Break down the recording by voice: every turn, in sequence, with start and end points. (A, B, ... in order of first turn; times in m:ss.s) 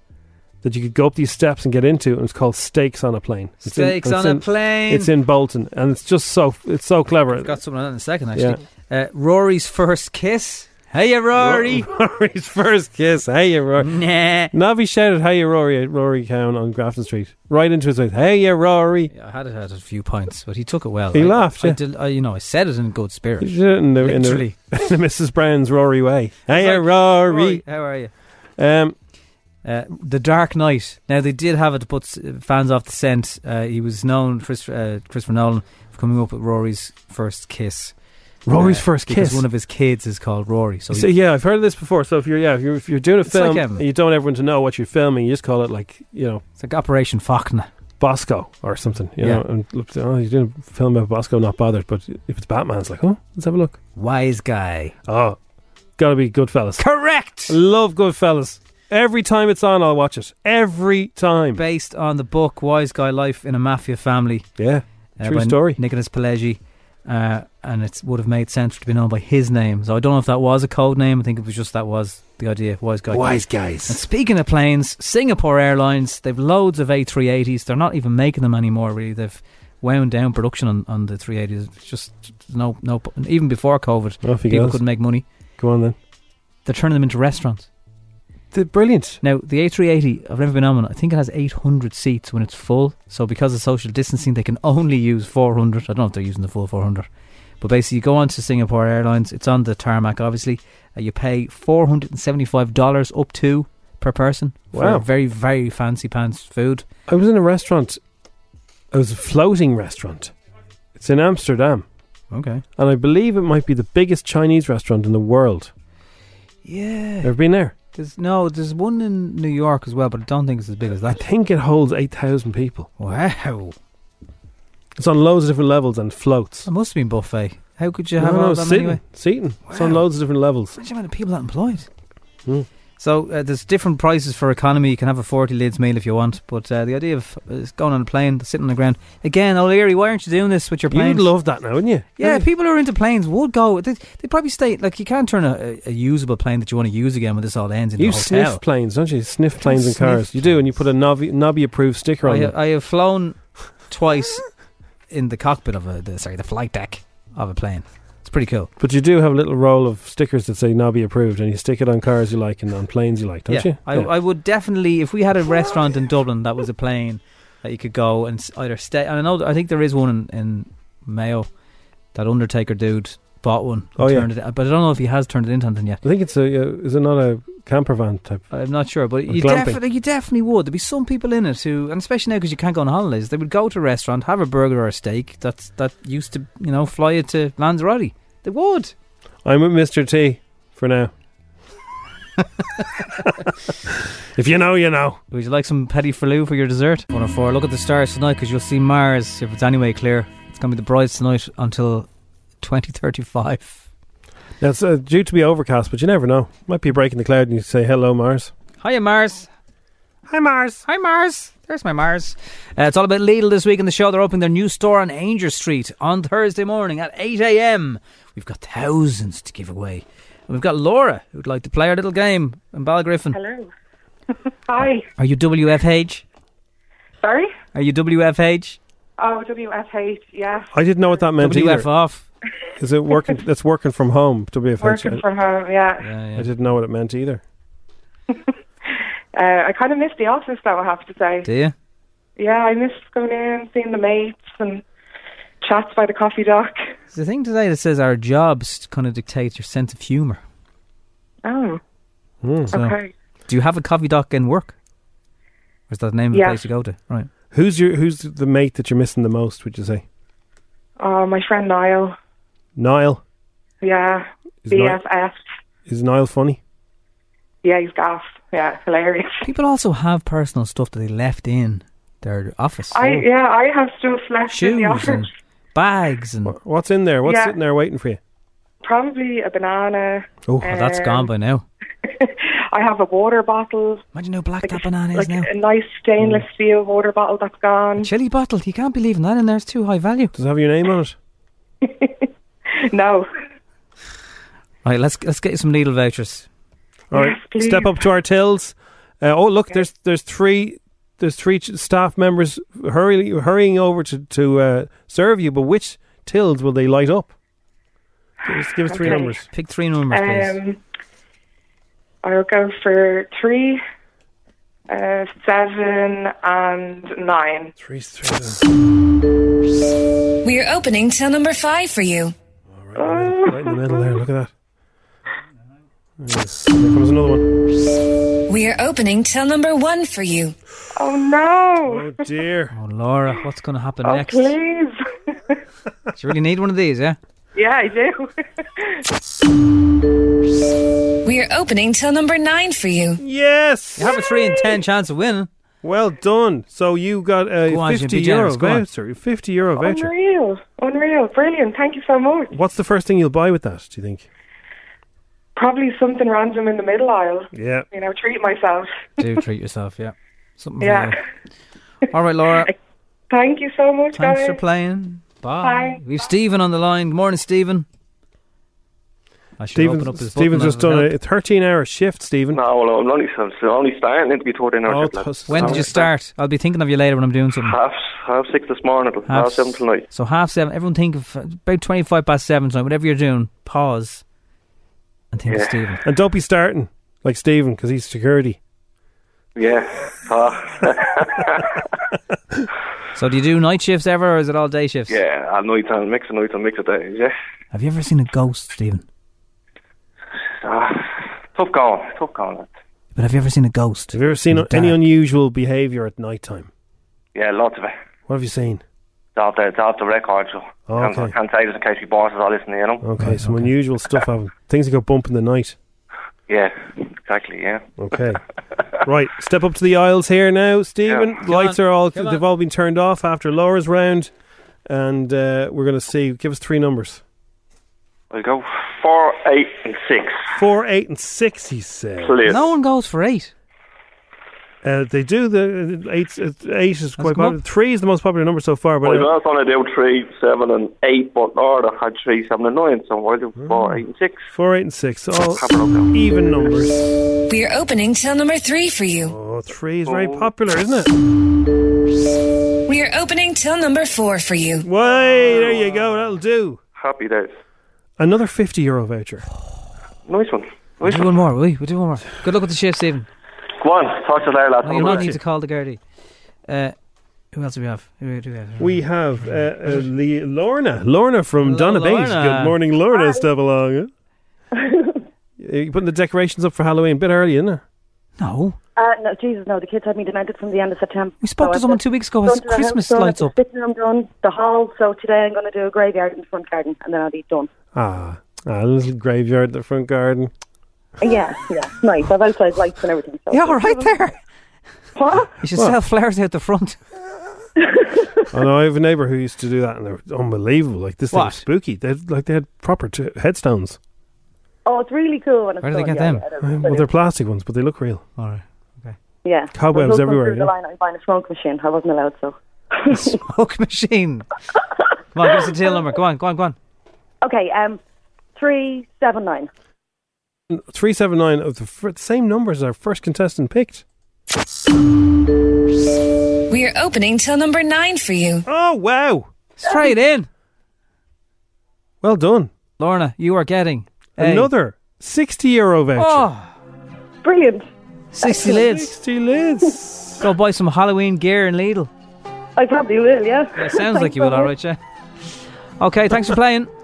0:00.6-0:07.5 A
0:03.6-0:05.1 B
0:07.3-0:11.9 B
0:11.3-0:13.9 A
0:13.8-0:14.5 B
0:14.5-0:19.1 A
0:19.1-0:24.6 B
0:21.1-0:21.8 A
0:23.4-0:27.6 A
0:26.5-0:28.1 B
0:28.6-0:28.9 A
0:29.6-0:37.9 B
0:38.4-0:39.4 A
0:38.5-0:41.1 B
0:40.9-0:46.4 A
0:43.2-0:43.8 B
0:46.6-0:47.7 B
0:48.0-0:53.8 A
0:49.2-0:49.4 B
0:54.0-0:54.9 B
0:55.1-0:55.4 A
0:56.0-0:56.8 A
0:56.8-0:57.6 B
0:57.5-1:01.6 A
1:01.5-1:04.5 B
1:04.6-1:05.8 A
1:05.2-1:25.2 B
1:13.1-1:14.0 A
1:24.2-1:24.8 A
1:25.6-1:26.0 A
1:26.6-1:27.7 B
1:28.5-1:29.2 A
1:29.2-1:37.1 B
1:37.6-1:46.8 B
1:44.7-1:45.0 A
1:47.1-1:48.0 A
1:48.9-1:50.3 A
1:51.0-1:51.8 A
1:52.3-1:52.6 B
1:52.8-1:55.7 A
1:56.6-1:57.3 B
1:57.2-1:57.7 A
1:57.9-2:01.2 B
2:01.1-2:02.9 A
2:03.0-2:03.8 B
2:05.0-2:06.7 A
2:06.6-2:09.0 B
2:08.2-2:10.8 A
2:09.6-2:10.1 B
2:10.8-2:11.9 B
2:13.0-2:21.3 B
2:20.9-2:22.4 A
2:22.2-2:28.6 B
2:28.0-2:32.5 A
2:29.6-2:30.7 B
2:32.2-2:34.4 B
2:35.1-2:38.7 B
2:38.8-2:44.1 A
2:43.5-2:51.5 B
2:52.1-2:56.0 B
2:54.0-2:54.3 A
2:56.0-2:58.4 A
2:58.5-3:08.9 B
2:59.3-2:59.8 A
3:09.4-3:11.1 A
3:14.4-3:15.2 A
3:15.3-3:22.1 B
3:22.6-3:23.8 B
3:24.6-3:28.5 A
3:28.8-3:29.5 B
3:30.3-3:30.8 A
3:30.8-3:43.4 B
3:43.3-3:43.7 C
3:44.7-3:45.1 C
3:45.2-3:46.2 B
3:47.2-3:47.5 C
3:47.7-3:48.8 B
3:49.2-3:50.9 C
3:50.7-3:51.9 A
3:51.4-3:52.3 B
3:52.8-3:55.2 A
3:54.8-3:56.1 C
3:56.0-3:56.5 B
3:56.3-3:57.4 A
3:59.3-4:01.5 C
4:01.4-4:01.7 B
4:02.4-4:04.8 C
4:05.6-4:06.8 C
4:07.1-4:10.4 B
4:11.4-4:11.8 C
4:12.4-4:12.7 A
4:12.7-4:13.0 B
4:12.7-4:13.1 C
4:13.5-4:14.7 B
4:15.9-4:17.3 B
4:16.3-4:16.6 C
4:17.5-4:20.0 A
4:21.0-4:22.1 C
4:22.8-4:23.2 A
4:23.8-4:25.4 C
4:24.6-4:25.0 A
4:25.9-4:26.6 A
4:27.6-4:29.3 C
4:29.4-4:33.0 B
4:32.9-4:35.3 C
4:33.0-4:33.2 A
4:34.5-4:36.5 B
4:36.4-4:38.2 A
4:37.2-4:37.6 C
4:38.8-4:41.3 C
4:40.6-4:41.6 B
4:42.2-4:44.0 C
4:44.1-4:45.5 B
4:44.6-4:48.1 C
4:46.2-4:46.4 A
4:48.0-4:50.3 B
4:50.3-4:51.2 A
4:51.8-4:52.2 C
4:52.9-4:53.3 C
4:54.8-4:56.5 B
4:57.1-5:07.3 A
4:57.1-4:58.0 C
5:08.5-5:09.5 A
5:08.8-5:09.3 C
5:09.0-5:10.6 B
5:10.1-5:10.8 C
5:12.2-5:13.8 C
5:14.9-5:17.7 C
5:17.8-5:18.6 A
5:20.4-5:22.3 D
5:22.7-5:24.5 A
5:23.0-5:23.9 C
5:26.2-5:27.4 A
5:28.5-5:30.5 D
5:31.0-5:32.3 C
5:31.8-5:32.7 A
5:32.7-5:34.6 B
5:34.0-5:34.9 C
5:36.2-5:37.2 B
5:37.5-5:38.3 C
5:41.2-5:43.2 D
5:43.2-5:44.2 A
5:44.0-5:45.5 B
5:45.8-5:50.1 A
5:47.6-5:48.8 B
5:49.8-5:52.5 C
5:52.5-5:54.3 A
5:55.6-5:58.9 C
5:57.5-5:57.9 A
5:59.2-6:01.1 B
6:00.8-6:01.1 C
6:02.1-6:02.7 B
6:03.3-6:04.6 C
6:04.1-6:07.8 B
6:05.6-6:06.0 C
6:09.6-6:11.1 B
6:09.7-6:12.6 A
6:12.5-6:15.9 E
6:14.9-6:16.0 A
6:15.5-6:17.8 B
6:17.6-6:20.0 E
6:19.2-6:24.2 B
6:25.3-6:26.0 B
6:25.5-6:25.8 E
6:26.0-6:28.6 A
6:29.6-6:30.7 E
6:33.1-6:35.2 B
6:35.1-6:37.3 E
6:37.7-6:39.0 B
6:40.6-6:41.0 E
6:41.6-6:42.7 E
6:43.1-6:45.0 B
6:44.1-6:46.7 A
6:47.3-6:47.9 E
6:48.3-6:48.8 A
6:49.4-6:53.0 E
6:50.9-6:51.4 A
6:53.0-6:55.8 A
6:53.2-6:53.7 B
6:56.5-6:57.8 E
6:58.0-6:58.4 A
6:59.0-7:04.3 A
7:01.4-7:02.4 B
7:04.9-7:07.2 A
7:08.3-7:10.4 E
7:10.6-7:12.6 A
7:12.3-7:12.5 E
7:12.5-7:13.5 B
7:14.8-7:19.3 A
7:17.2-7:17.6 B
7:19.0-7:24.4 E
7:20.0-7:21.9 C
7:23.6-7:27.0 A
7:25.4-7:26.1 E
7:27.5-7:29.3 D
7:29.2-7:31.1 A
7:30.0-7:30.4 E
7:32.9-7:34.8 D
7:34.8-7:36.8 A
7:35.6-7:35.9 E
7:37.0-7:37.5 E
7:38.2-7:39.4 A
7:40.3-7:41.2 E
7:41.0-7:43.3 B
7:43.8-7:45.1 E
7:44.8-7:46.0 B
7:44.9-7:45.4 A
7:46.7-7:46.9 B
7:47.5-7:50.1 B
7:48.8-7:54.1 A
7:51.6-7:52.8 B
7:53.1-7:53.4 F
7:54.8-7:55.2 F
7:55.6-7:57.8 A
7:58.4-7:58.8 B
7:59.0-8:07.7 F
8:01.4-8:03.5 B
8:07.9-8:10.5 A
8:11.2-8:14.1 F
8:13.5-8:14.4 B
8:15.2-8:15.5 F
8:15.6-8:17.0 B
8:17.9-8:18.4 F
8:18.5-8:24.0 A
8:21.3-8:21.6 B
8:24.8-8:27.1 F
8:25.8-8:26.4 B
8:26.6-8:28.2 A
8:28.4-8:29.2 B
8:29.4-8:32.5 F
8:29.7-8:30.7 A
8:33.1-8:33.3 F
8:33.1-8:34.4 B
8:35.3-8:36.8 B
8:37.4-8:38.0 F
8:38.6-8:39.7 F
8:40.7-8:44.0 A
8:46.7-8:48.6 D
8:48.6-8:49.5 A
8:49.8-8:50.5 B
8:52.2-8:52.7 A
8:53.0-8:54.7 B
8:54.4-8:56.5 A
8:56.2-8:56.7 B
8:57.4-8:57.8 F
8:58.3-8:59.1 B
8:58.4-8:58.7 F
8:58.6-9:00.4 A
9:00.4-9:02.1 B
9:02.8-9:04.7 F
9:03.8-9:05.0 B
9:06.0-9:06.9 B